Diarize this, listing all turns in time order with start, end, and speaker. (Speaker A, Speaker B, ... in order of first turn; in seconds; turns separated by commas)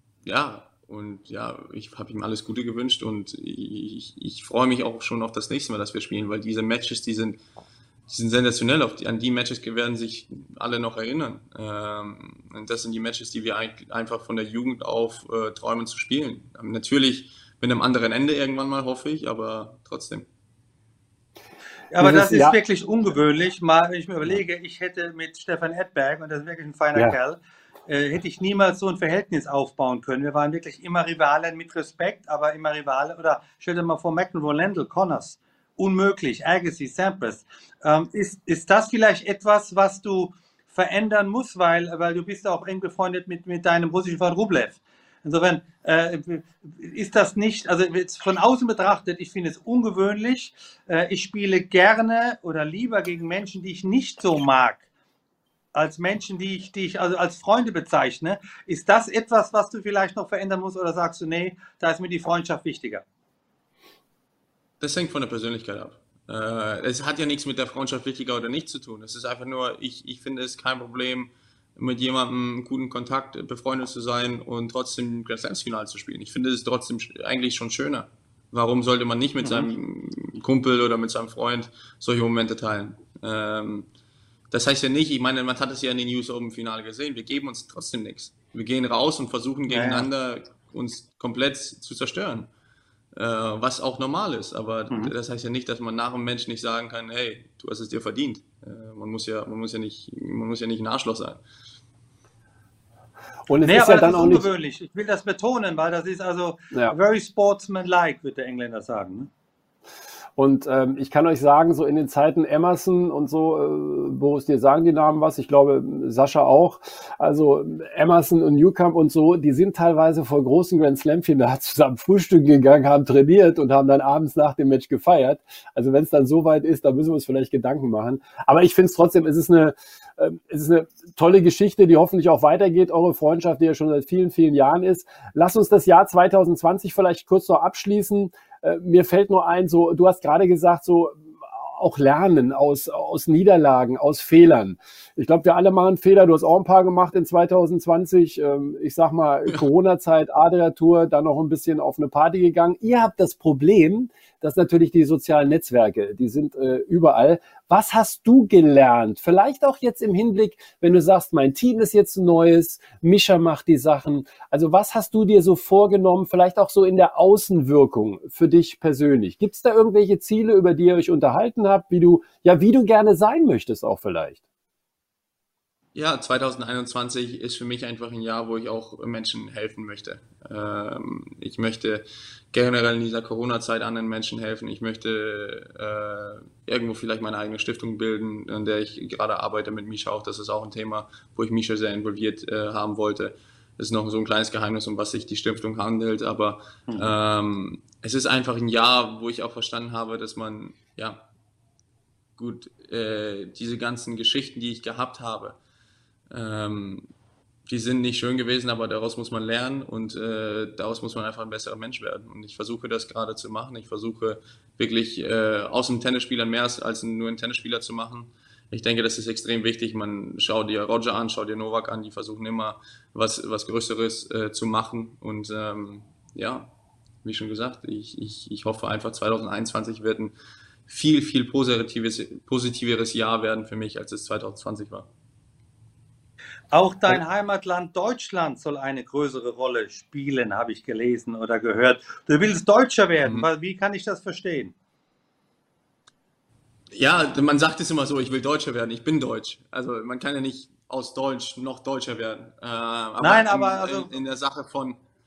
Speaker A: 0.2-7.4, Speaker A: 8.1-20.2, Speaker B: 21.9-54.8, Speaker C: 22.0-22.6, Speaker B: 55.7-63.0, Speaker A: 64.8-83.9, Speaker B: 79.4-79.7, Speaker A: 84.5-92.5, Speaker B: 89.7-90.1, Speaker A: 93.1-101.4, Speaker C: 103.5-104.5, Speaker B: 103.6-109.3, Speaker C: 110.3-174.4, Speaker A: 175.9-201.2, Speaker A: 202.4-205.6, Speaker A: 206.3-207.1, Speaker A: 207.7-226.7, Speaker A: 227.2-230.3, Speaker A: 230.9-235.1, Speaker B: 236.7-244.7, Speaker A: 243.2-243.5, Speaker A: 246.9-255.0, Speaker B: 253.2-254.1